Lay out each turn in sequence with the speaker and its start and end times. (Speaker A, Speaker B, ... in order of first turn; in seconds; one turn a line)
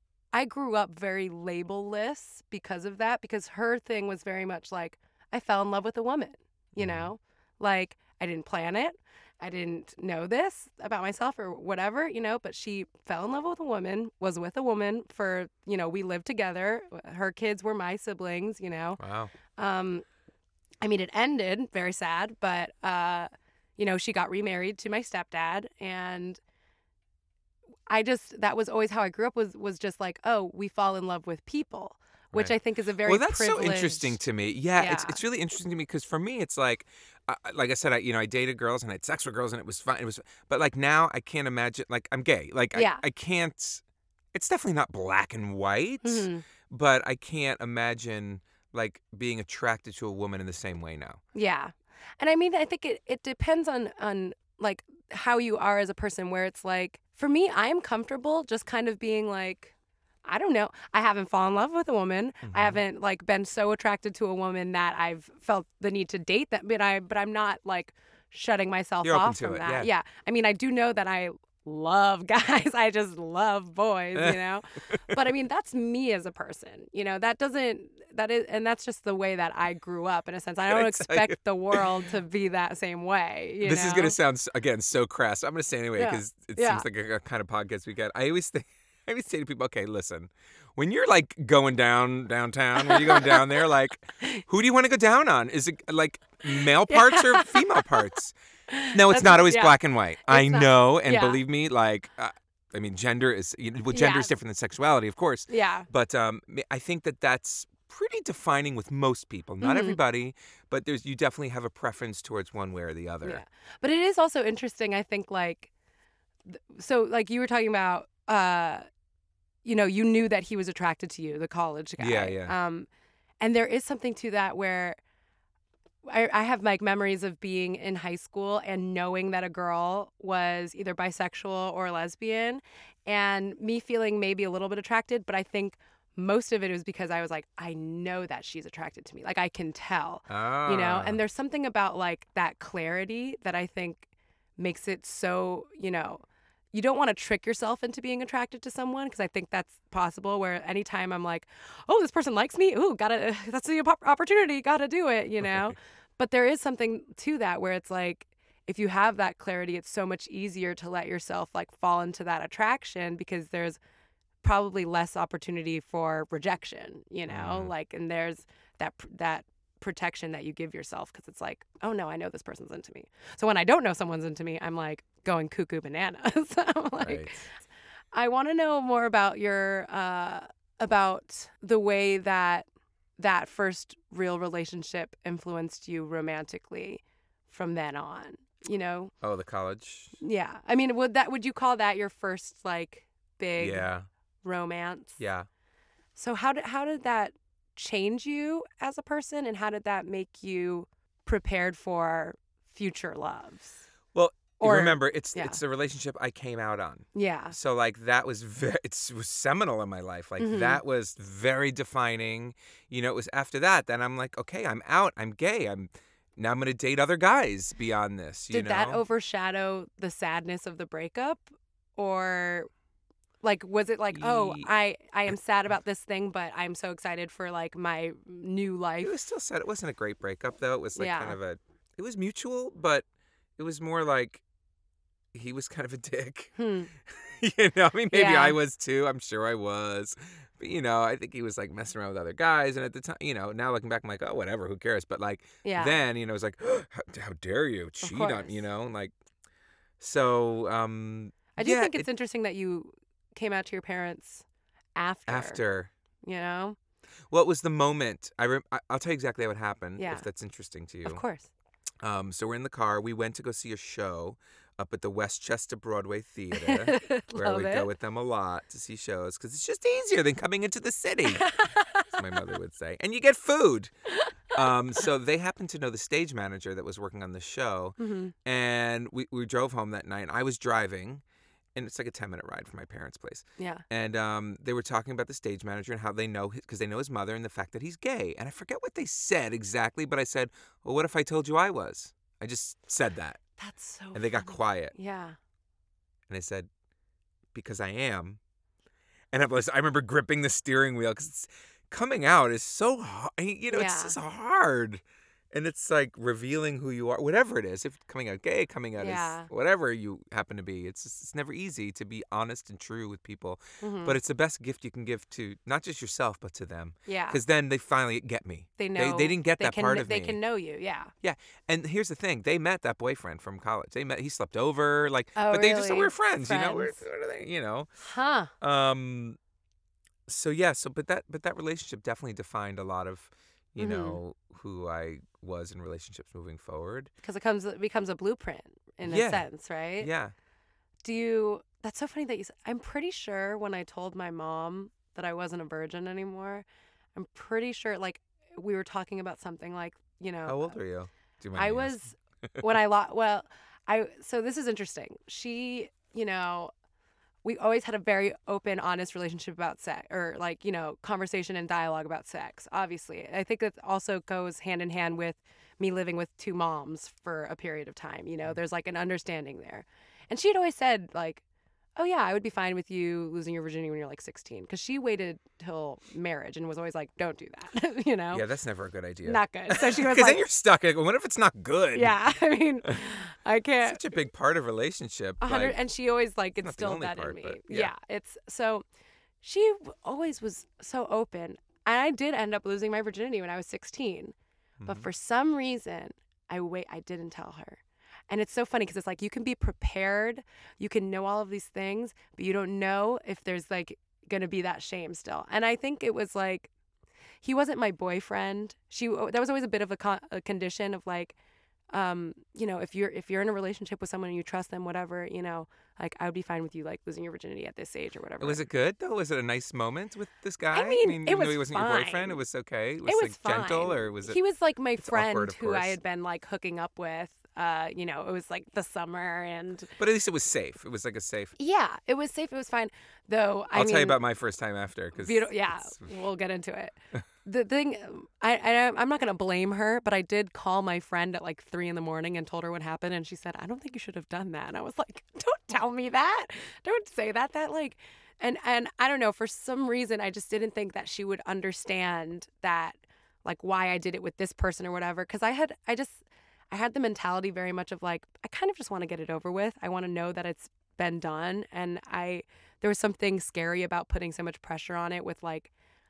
Speaker A: 0.3-19.0
Speaker B: 6.8-7.1
Speaker B: 19.0-19.3
Speaker A: 19.5-20.0
Speaker A: 20.8-26.4
Speaker A: 27.9-34.2
Speaker B: 32.3-43.8
Speaker A: 34.8-35.2
Speaker A: 42.7-43.0
Speaker B: 44.3-51.2
Speaker A: 46.0-46.4
Speaker A: 51.3-59.7
Speaker A: 60.2-84.2
Speaker B: 62.4-62.8
Speaker B: 69.0-69.9
Speaker B: 74.9-75.2
Speaker B: 80.7-81.9
Speaker B: 83.6-98.3
Speaker A: 86.0-86.8
Speaker A: 92.8-93.7
Speaker A: 96.5-98.1
Speaker A: 98.7-101.4
Speaker B: 98.9-113.4
Speaker A: 103.9-104.3
Speaker A: 105.5-105.9
Speaker A: 109.6-110.0
Speaker A: 113.2-115.7
Speaker A: 116.5-118.8
Speaker A: 119.6-122.9
Speaker B: 122.0-122.5
Speaker A: 123.4-125.0
Speaker A: 126.0-163.8
Speaker B: 140.3-141.2
Speaker A: 164.4-177.4
Speaker B: 167.3-167.7
Speaker B: 177.0-177.5
Speaker A: 178.1-182.7
Speaker A: 183.2-189.1
Speaker B: 189.2-190.2
Speaker A: 190.2-193.9
Speaker B: 193.6-194.1
Speaker A: 194.4-195.2
Speaker B: 195.2-195.5
Speaker A: 196.2-203.8
Speaker B: 204.1-219.0
Speaker A: 204.6-205.6
Speaker A: 207.1-207.5
Speaker A: 210.4-210.8
Speaker A: 218.5-221.4
Speaker A: 222.0-222.7
Speaker A: 223.4-229.2
Speaker B: 224.1-224.7
Speaker B: 229.0-233.1
Speaker A: 230.9-231.4
Speaker B: 233.6-234.4
Speaker B: 235.3-236.5
Speaker A: 236.6-236.9
Speaker B: 237.1-249.1
Speaker A: 238.1-238.6
Speaker A: 245.6-246.0
Speaker A: 248.0-248.6
Speaker B: 250.0-252.1
Speaker A: 251.6-254.4
Speaker A: 254.9-255.6
Speaker B: 255.3-255.9
Speaker A: 256.2-256.8
Speaker B: 257.3-261.2
Speaker A: 260.0-260.2
Speaker A: 261.1-261.5
Speaker B: 262.0-273.9
Speaker A: 266.5-267.9
Speaker A: 271.3-272.2
Speaker A: 274.1-274.6
Speaker B: 274.5-281.2
Speaker A: 278.0-278.3
Speaker B: 281.7-293.4
Speaker A: 283.6-283.8
Speaker A: 293.6-295.4
Speaker B: 294.1-294.9
Speaker B: 296.3-296.7
Speaker B: 297.5-298.4
Speaker B: 299.3-320.4
Speaker A: 303.7-304.1
Speaker A: 309.0-309.5
Speaker A: 313.8-314.2
Speaker A: 317.1-317.4
Speaker A: 318.8-321.1
Speaker B: 321.2-327.9
Speaker A: 325.4-327.0
Speaker A: 328.0-328.5
Speaker B: 328.6-329.4
Speaker B: 330.3-337.1
Speaker A: 333.8-334.2
Speaker A: 337.2-340.1
Speaker B: 339.0-339.5
Speaker B: 340.0-340.3
Speaker A: 341.0-350.8
Speaker B: 350.5-352.0
Speaker A: 351.5-356.7
Speaker A: 357.4-371.4
Speaker A: 372.0-378.4
Speaker B: 378.3-382.2
Speaker A: 379.2-380.4
Speaker A: 381.9-384.1
Speaker B: 383.8-385.8
Speaker A: 385.4-388.8
Speaker B: 386.6-387.9
Speaker A: 389.4-394.3
Speaker B: 394.8-395.1
Speaker A: 394.9-406.7
Speaker A: 407.4-411.4
Speaker A: 411.9-418.6
Speaker B: 418.4-424.4
Speaker A: 420.7-422.4
Speaker A: 423.1-429.9
Speaker B: 425.0-426.0
Speaker B: 430.0-431.5
Speaker A: 431.6-434.2
Speaker B: 433.7-436.1
Speaker A: 435.1-465.7